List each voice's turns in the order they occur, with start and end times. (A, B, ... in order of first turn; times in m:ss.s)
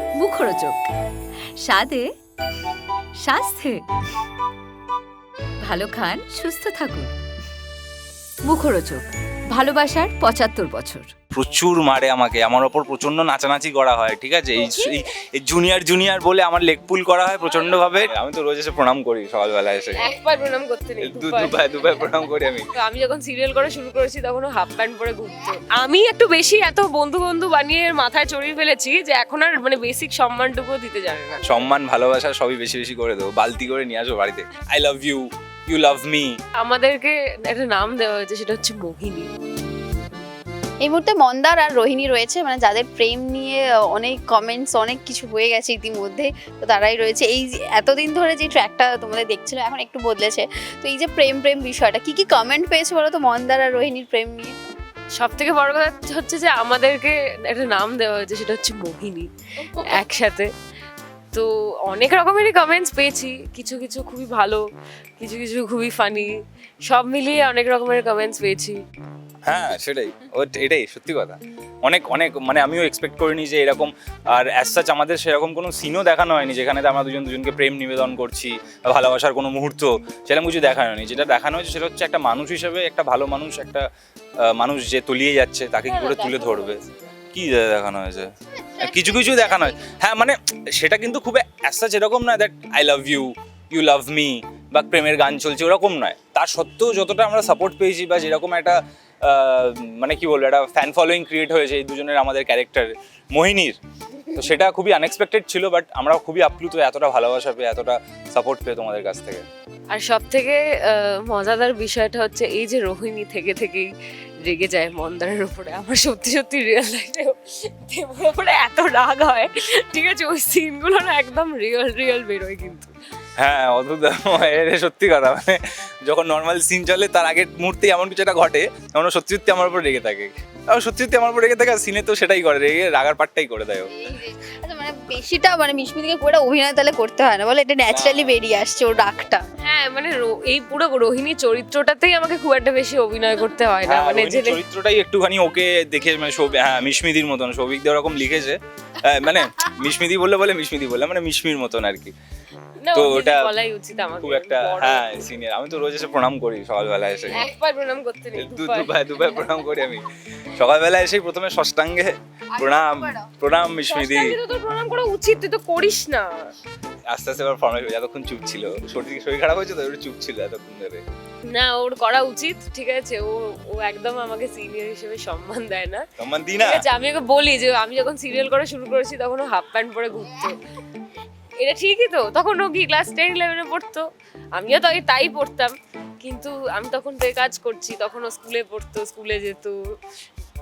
0:00.2-0:00.8 A
0:01.6-0:02.0 A
0:03.2-0:03.8 A
0:05.6-0:07.1 A
0:08.4-0:11.1 A
0:11.3-0:20.0 B
0:14.6-0:15.0 C
0:19.9-0:21.7 C
0:21.0-0:22.7 B
0:22.7-0:31.7 C
0:31.4-0:36.4 B
0:36.6-0:39.3 C
0:40.8-0:54.5 D
0:55.1-1:00.5 C
1:01.3-1:04.6 C
1:05.2-1:08.8 C
1:09.4-1:23.9 B
1:24.4-1:26.8 B
1:25.8-1:27.2 C
1:27.3-1:43.8 B
1:28.6-1:29.9 D
1:44.3-1:49.4 B
1:49.9-1:53.9 C
1:54.4-2:02.9 C
2:03.4-2:13.9 B
2:14.0-2:19.4 D
2:17.9-2:18.4 B
2:19.6-2:24.6 C
2:23.8-2:32.1 B
2:32.8-2:35.3 C
2:32.9-2:33.5 B
2:34.2-2:37.4 B
2:37.3-2:39.0 C
2:38.4-2:44.4 B
2:42.5-2:43.3 D
2:43.8-2:46.5 C
2:47.1-2:51.0 B
2:51.5-3:00.6 C
2:56.2-2:56.8 B
3:01.6-3:10.0 C